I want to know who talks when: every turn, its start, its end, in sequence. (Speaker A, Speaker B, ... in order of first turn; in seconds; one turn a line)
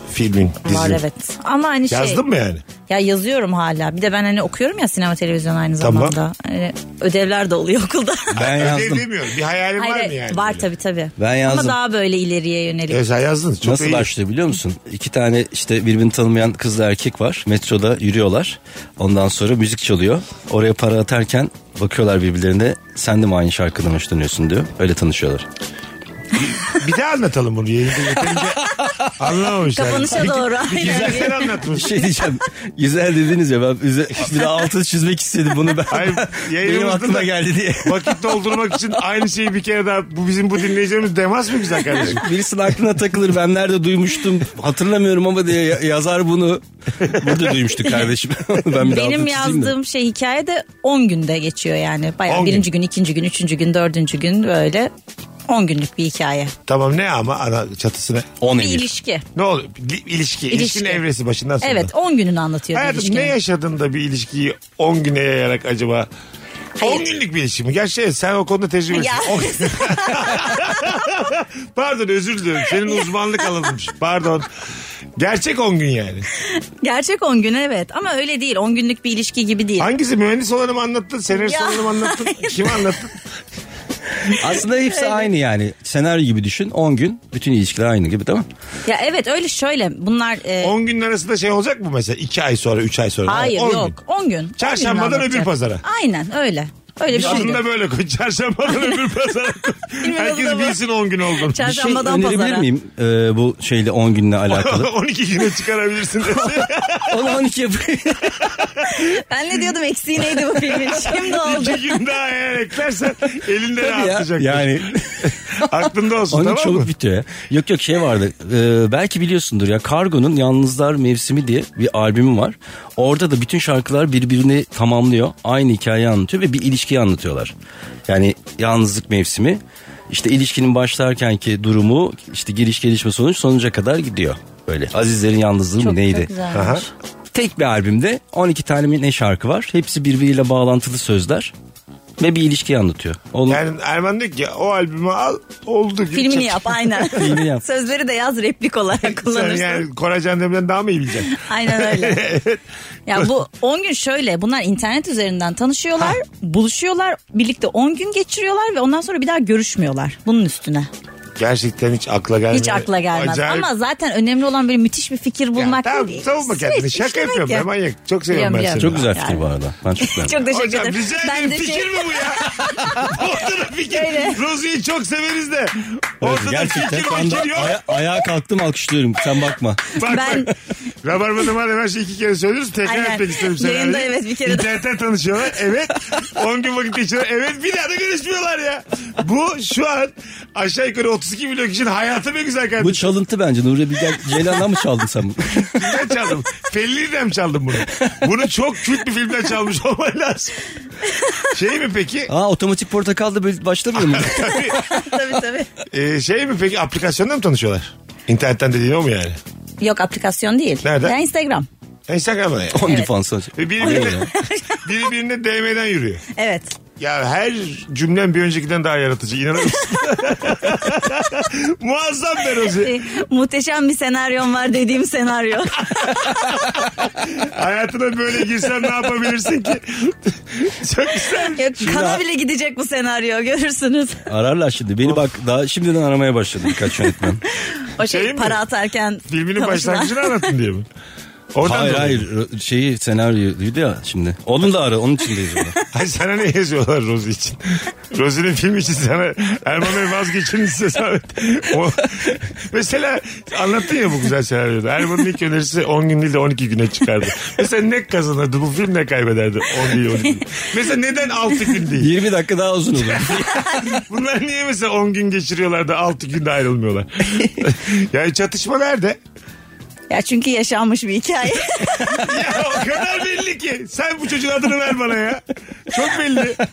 Speaker A: 0.1-1.0
Speaker B: 0.6-2.2
Speaker A: 1.9-2.6
Speaker B: 2.9-8.4
Speaker A: 5.8-6.2
Speaker C: 8.3-9.1
Speaker A: 8.3-10.7
Speaker B: 9.8-13.0
Speaker C: 11.2-11.8
Speaker A: 12.9-14.1
Speaker C: 13.6-25.5
Speaker A: 26.3-28.6
Speaker C: 28.2-29.2
Speaker A: 29.2-32.0
Speaker B: 29.7-31.5
Speaker C: 30.8-38.4
Speaker A: 35.9-42.2
Speaker C: 42.0-49.7
Speaker B: 48.8-54.9
Speaker A: 52.3-52.7
Speaker B: 55.5-56.5
Speaker A: 56.7-58.3
Speaker C: 58.4-58.9
Speaker B: 58.5-59.2
Speaker A: 59.4-61.9
Speaker B: 60.5-61.0
Speaker B: 61.6-63.4
Speaker A: 62.7-66.1
Speaker B: 66.8-67.1
Speaker A: 66.8-74.5
Speaker B: 68.9-70.9
Speaker A: 75.2-76.3
Speaker B: 76.4-79.9
Speaker A: 79.8-83.2
Speaker B: 81.3-82.9
Speaker C: 84.3-88.5
Speaker B: 84.8-85.3
Speaker B: 88.9-90.8
Speaker A: 90.6-94.0
Speaker B: 93.3-97.6
Speaker A: 94.6-95.8
Speaker A: 97.1-101.6
Speaker C: 97.2-97.5
Speaker B: 100.0-100.8
Speaker B: 101.4-102.7
Speaker C: 101.6-104.9
Speaker A: 104.5-107.4
Speaker C: 106.3-108.5
Speaker A: 108.4-108.9
Speaker B: 108.8-112.0
Speaker A: 110.7-116.9
Speaker C: 113.8-127.5
Speaker C: 128.1-136.3
Speaker B: 135.8-136.9
Speaker A: 136.5-136.8
Speaker C: 137.3-141.5
Speaker C: 142.2-143.6
Speaker A: 143.5-147.3
Speaker B: 146.1-149.8
Speaker C: 147.1-147.6
Speaker A: 149.1-152.6
Speaker B: 151.3-152.2
Speaker B: 153.1-160.9
Speaker A: 161.4-163.7
Speaker B: 162.5-167.7
Speaker A: 165.6-169.1
Speaker B: 168.3-169.4
Speaker C: 168.8-170.4
Speaker B: 170.0-173.2
Speaker A: 170.4-177.9
Speaker B: 173.8-174.4
Speaker C: 176.2-179.9
Speaker A: 179.9-193.1
Speaker B: 180.0-180.5
Speaker B: 182.8-184.8
Speaker C: 192.8-195.9
Speaker A: 195.7-200.7
Speaker B: 201.1-201.4
Speaker A: 201.4-202.3
Speaker C: 202.3-204.8
Speaker A: 203.9-204.8
Speaker B: 204.6-205.7
Speaker A: 205.9-209.4
Speaker B: 209.8-211.7
Speaker A: 210.8-211.2
Speaker A: 212.1-213.0
Speaker C: 212.7-214.3
Speaker B: 212.8-213.1
Speaker A: 213.6-214.3
Speaker B: 213.8-214.9
Speaker A: 214.8-216.2
Speaker B: 216.3-216.8
Speaker A: 217.0-222.9
Speaker B: 222.6-226.6
Speaker A: 225.9-231.7
Speaker B: 231.5-234.2
Speaker C: 231.8-232.2
Speaker C: 234.3-237.4
Speaker B: 237.7-240.5
Speaker A: 238.0-238.6
Speaker A: 239.3-240.9
Speaker A: 241.5-242.3
Speaker C: 241.6-245.8
Speaker A: 245.9-262.1
Speaker C: 262.0-263.6
Speaker A: 263.0-269.2
Speaker B: 263.5-263.9
Speaker B: 270.1-272.3
Speaker A: 272.1-276.6